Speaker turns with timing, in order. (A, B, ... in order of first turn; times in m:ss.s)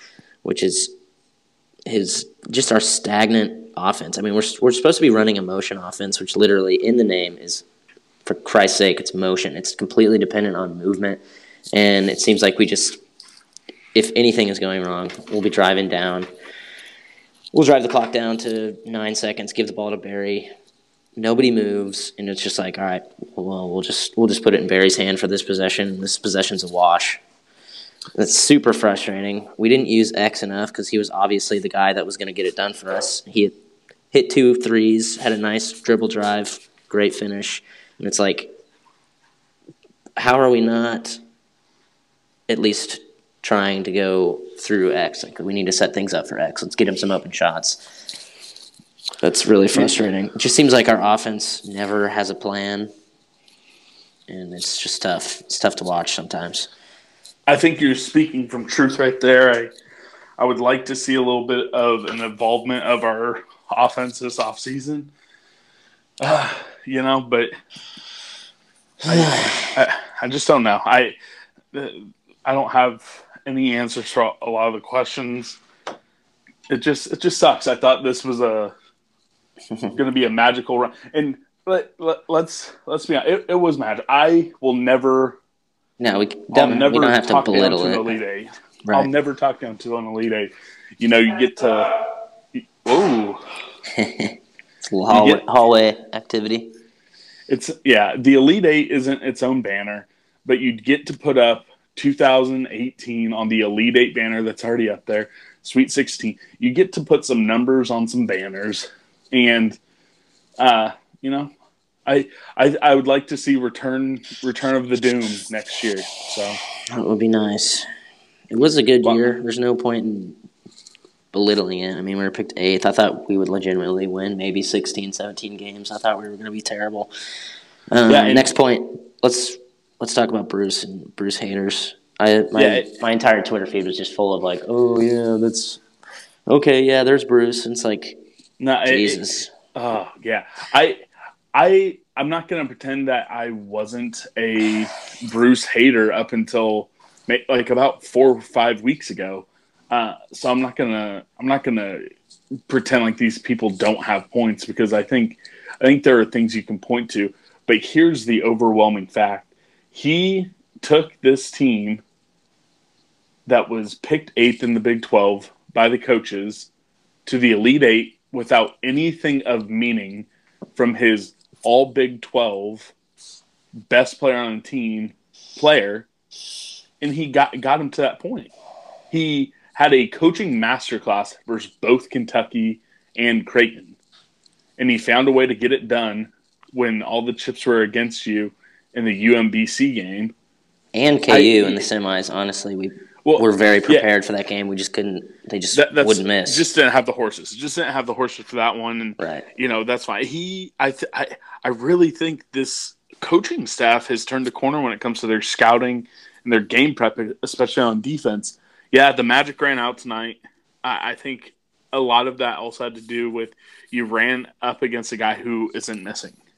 0:00.4-0:00.9 A
0:01.9-0:07.6 A
0:08.2-0:11.2 A
0:11.7-0:13.0 A
0:14.0-0:16.3 A
0:17.5-0:20.5 A
0:21.2-0:27.2 A
0:28.2-0:33.6 A
0:34.1-0:38.5 A
0:40.2-0:41.2 A
0:42.5-0:47.9 A
0:49.2-0:52.9 A
0:54.3-0:56.7 A
0:57.5-0:59.7 B
1:00.4-1:05.1 B
1:06.2-1:07.5 B
1:09.0-1:11.2 B
1:09.1-1:09.7 A
1:11.7-1:15.6 B
1:16.7-1:18.7 B
1:20.0-1:25.4 B
1:26.0-1:28.2 A
1:26.5-1:32.0 B
1:32.6-1:33.4 B
1:34.0-1:36.7 A
1:35.1-1:35.4 B
1:37.5-1:49.8 B
1:50.6-1:51.5 B
1:52.1-1:56.6 B
1:56.9-1:57.9 A
1:58.5-2:00.4 A
2:01.3-2:07.1 A
2:07.9-2:15.8 A
2:08.1-2:08.5 B
2:12.6-2:12.9 B
2:16.5-2:18.2 A
2:18.6-2:32.1 B
2:18.9-2:19.5 A
2:32.7-2:42.0 B
2:43.5-2:46.7 B
2:47.3-2:52.9 B
2:53.9-2:56.1 B
2:57.0-2:58.5 B
2:59.1-3:04.0 B
3:04.8-3:10.3 B
3:10.9-3:16.7 A
3:11.3-3:11.9 B
3:13.2-3:14.1 B
3:15.7-3:36.4 B
3:19.2-3:19.5 A